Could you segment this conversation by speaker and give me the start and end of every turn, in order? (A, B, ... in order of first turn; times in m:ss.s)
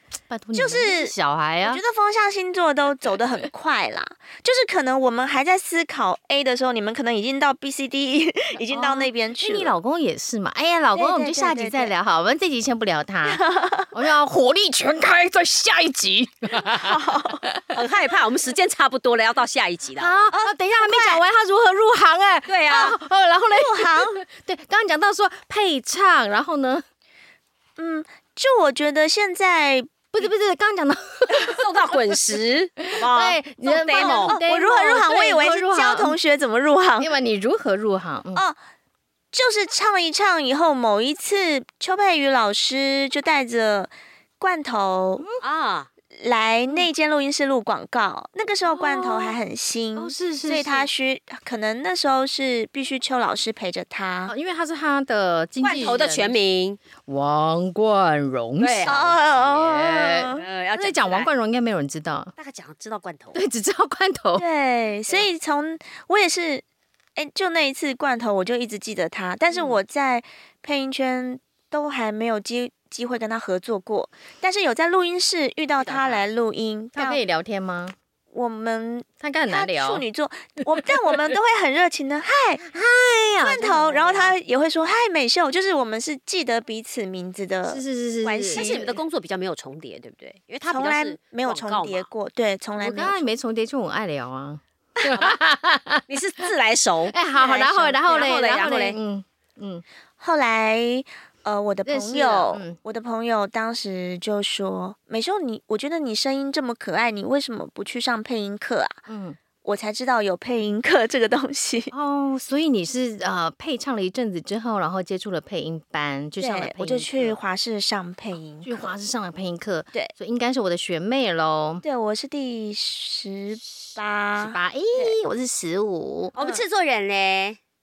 0:00.3-0:01.8 A
0:00.5-0:09.7 B
0:08.7-0:17.0 A
0:10.9-0:11.9 B
0:13.2-0:13.9 B
0:16.7-0:17.4 B
0:17.7-0:20.2 C
0:20.0-0:26.8 A
0:20.3-0:21.2 B
0:22.5-0:23.0 C
0:23.5-0:24.2 B
0:27.8-0:29.9 B
0:30.1-0:31.6 A
0:31.4-0:34.4 C
0:32.8-0:36.2 A
0:34.0-0:37.1 B
0:37.0-0:38.4 A
0:39.3-0:45.2 B
0:45.4-0:45.9 C
0:46.2-0:54.3 B
0:48.7-0:49.4 A
0:50.0-0:50.9 A
0:54.3-0:56.4 A
0:55.6-0:56.8 C
0:57.1-1:02.3 A
0:58.6-0:59.0 C
0:58.9-1:00.4 B
1:00.4-1:01.3 C
1:02.4-1:03.4 C
1:03.3-1:04.4 A
1:04.4-1:06.6 B
1:07.2-1:17.2 B
1:09.5-1:09.8 C
1:15.8-1:16.2 C
1:17.0-1:18.0 A
1:18.3-1:22.6 B
1:19.2-1:20.0 A
1:22.6-1:24.1 A
1:23.4-1:24.3 C
1:23.6-1:27.8 B
1:27.7-1:29.0 A
1:28.2-1:32.1 C
1:30.7-1:33.2 B
1:32.8-1:36.1 A
1:35.1-1:35.4 C
1:36.1-1:39.0 C
1:37.1-1:39.8 A
1:40.2-1:49.0 B
1:41.9-1:42.8 A
1:49.1-1:49.4 A
1:49.6-1:51.9 B
1:51.9-1:57.4 A
1:56.4-1:59.0 B
1:58.6-2:01.8 A
2:01.8-2:05.2 B
2:03.8-2:06.3 A
2:06.4-2:07.6 C
2:06.4-2:06.6 B